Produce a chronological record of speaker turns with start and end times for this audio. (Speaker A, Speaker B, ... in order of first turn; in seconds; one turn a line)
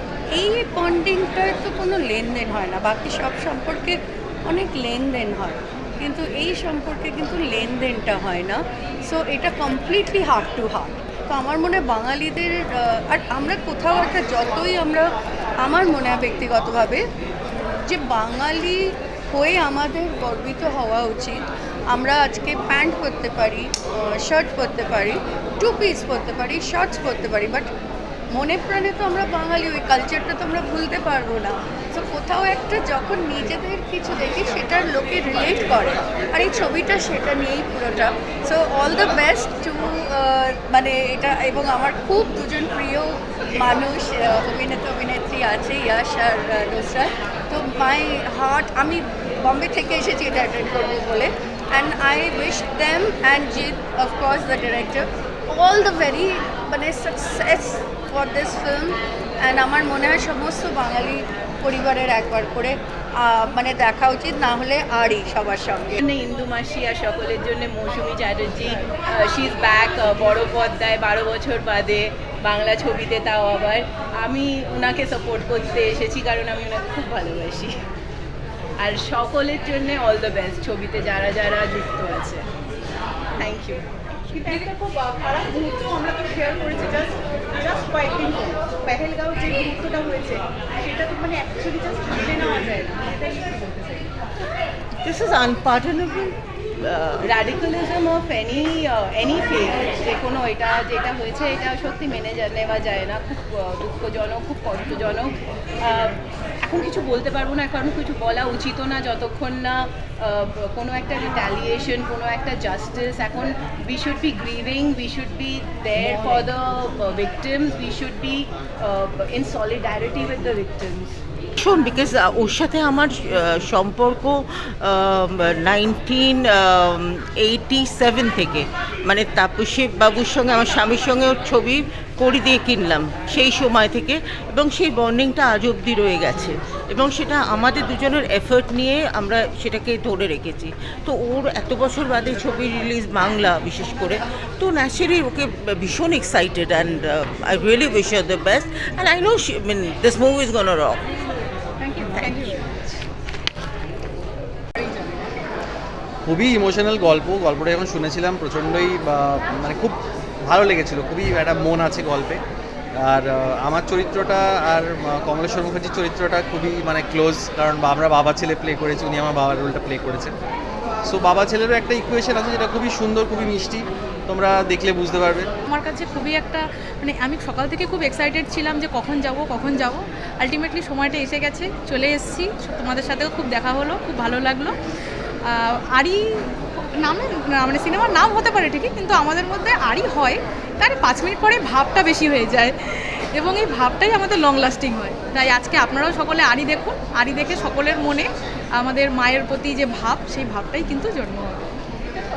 Speaker A: 0.3-17.0
Speaker A: 17.8-27.7
Speaker A: 28.3-66.0
Speaker B: 66.0-77.8
Speaker B: 78.8-82.4
Speaker B: 83.4-83.8
Speaker C: 84.4-94.0
Speaker D: 95.0-97.2
Speaker B: 97.2-121.1
Speaker D: 121.6-151.0
Speaker D: 152.0-152.6
Speaker E: 156.2-162.4
Speaker E: 163.0-170.3
Speaker E: 171.1-175.5
Speaker F: 175.7-184.7
Speaker F: 185.5-201.6